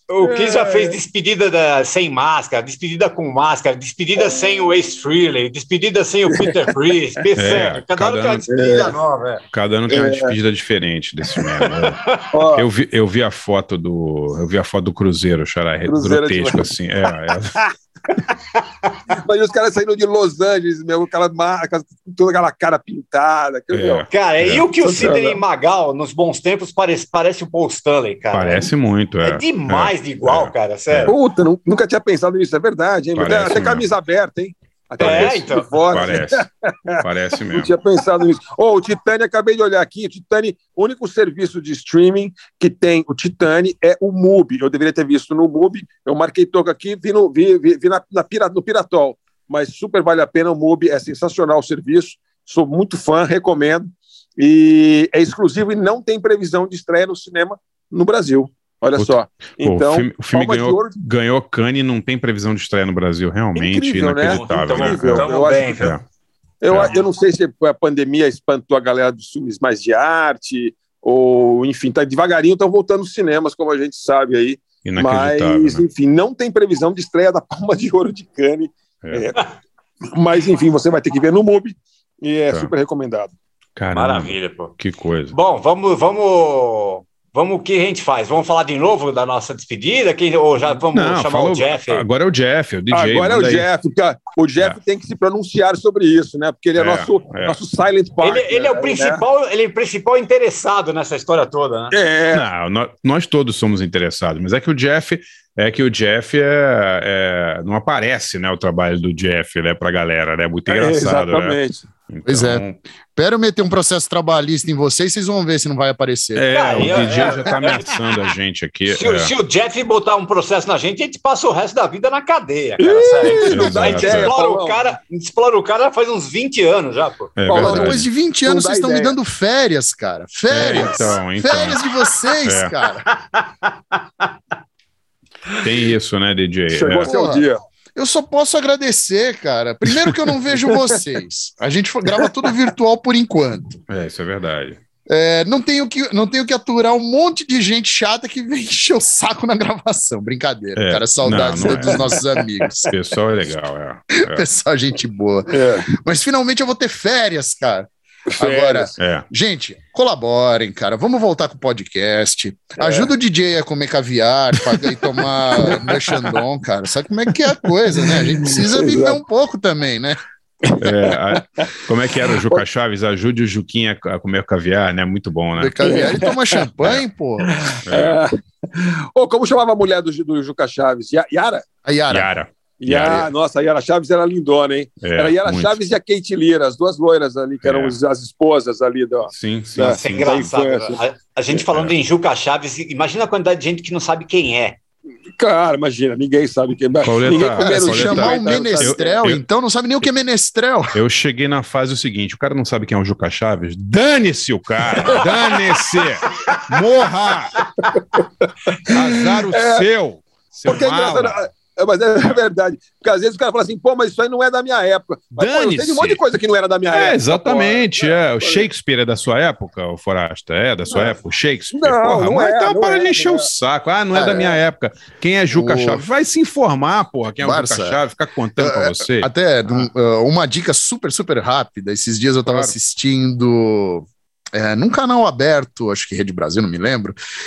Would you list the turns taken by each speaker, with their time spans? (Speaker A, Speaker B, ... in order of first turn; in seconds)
Speaker A: 0.1-9.4, 24.1-28.7, 29.2-31.1, 35.0-36.0, 64.3-65.9, 83.9-84.7, 85.3-92.1, 98.2-102.0, 116.5-117.9, 118.9-127.4, 133.2-133.7, 189.8-194.8
Speaker B: 0.2-1.0, 8.5-8.9, 9.9-10.3, 12.3-12.7, 15.9-16.7, 19.2-24.0, 24.8-25.4, 31.1-37.0, 37.5-60.9, 63.5-66.0, 66.6-79.3, 80.1-83.3, 92.9-99.2, 101.9-102.5, 110.7-111.8, 122.8-124.8, 127.5-129.2, 136.7-137.6, 140.6-140.9, 152.0-152.4, 155.5-155.9, 158.3-158.9, 162.8-163.1, 164.7-166.4, 167.3-169.2, 170.7-171.6, 175.8-176.6, 177.4-181.6, 182.8-191.0, 195.4-199.2, 205.2-205.6, 208.9-209.8, 210.7-218.7, 221.7-223.5
Speaker C: 7.4-8.4, 9.5-12.0, 12.5-17.6, 23.7-24.6, 28.3-31.1, 33.1-33.9, 35.0-35.4, 35.9-36.5, 37.0-37.7, 59.0-66.0, 66.7-66.9, 74.8-75.8, 83.8-85.3, 90.8-93.7, 96.8-97.6, 102.3-111.6, 112.1-112.8, 116.3-119.3, 123.5-124.3, 127.4-128.1, 130.5-131.8, 132.4-132.7, 135.6-137.1, 139.9-140.3, 143.9-144.8, 150.8-152.2, 152.8-154.5, 159.0-159.3, 170.8-175.9, 177.9-178.2, 182.1-183.3, 185.0-185.8, 187.6-188.0, 189.3-190.5, 197.0-199.4, 200.9-207.6, 208.9-211.4, 215.4-216.2, 216.9-229.3, 232.4-232.7
Speaker D: 112.3-116.5, 127.5-133.1, 137.1-143.8, 145.1-152.9, 154.1-170.2, 175.6-177.5, 181.8-182.3, 197.3-200.9, 224.1-224.6, 225.5-226.0, 227.4-228.0, 228.6-237.2